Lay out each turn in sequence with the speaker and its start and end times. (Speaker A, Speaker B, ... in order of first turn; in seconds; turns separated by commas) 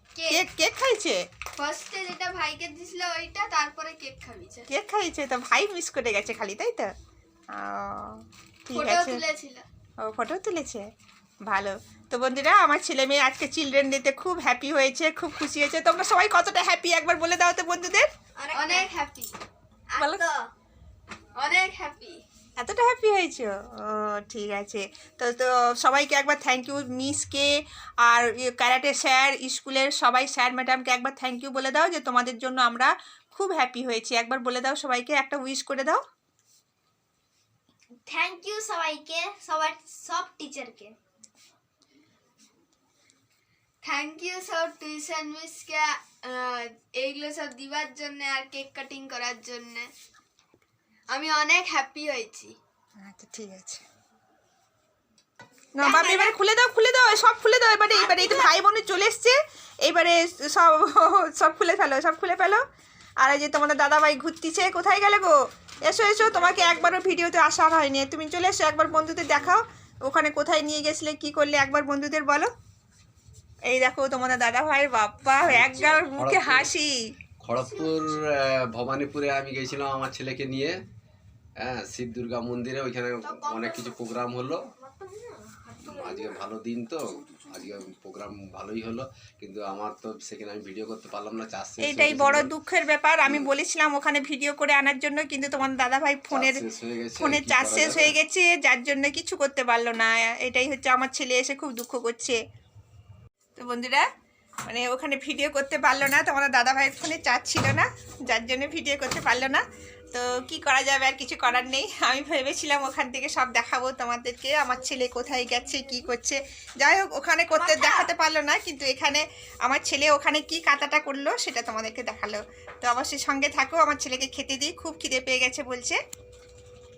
Speaker A: 0.1-0.5, Speaker B: 0.3-1.2, Speaker A: 1.6-4.7, Speaker B: 4.7-6.9, Speaker B: 7.5-9.2, Speaker A: 8.7-9.6, Speaker B: 10.0-10.9, Speaker B: 11.4-18.1, Speaker C: 18.4-18.9, Speaker A: 18.5-19.3, Speaker C: 19.9-20.4, Speaker B: 20.0-20.2, Speaker A: 21.4-22.2, Speaker B: 22.6-27.5, Speaker B: 28.0-36.0, Speaker C: 38.1-41.0, Speaker A: 43.8-49.9, Speaker A: 51.1-52.5, Speaker B: 53.0-53.8, Speaker B: 55.8-62.6, Speaker C: 55.8-56.3, Speaker C: 57.9-58.5, Speaker B: 63.2-72.5, Speaker B: 73.7-77.0, Speaker D: 75.4-76.7, Speaker D: 77.4-80.8, Speaker A: 77.6-78.1, Speaker D: 81.6-84.6, Speaker A: 83.2-84.0, Speaker D: 85.8-92.5, Speaker B: 91.8-96.6, Speaker D: 93.2-93.5, Speaker D: 96.3-98.1, Speaker B: 97.2-102.4, Speaker B: 103.6-104.1, Speaker B: 104.7-126.0, Speaker C: 117.5-118.1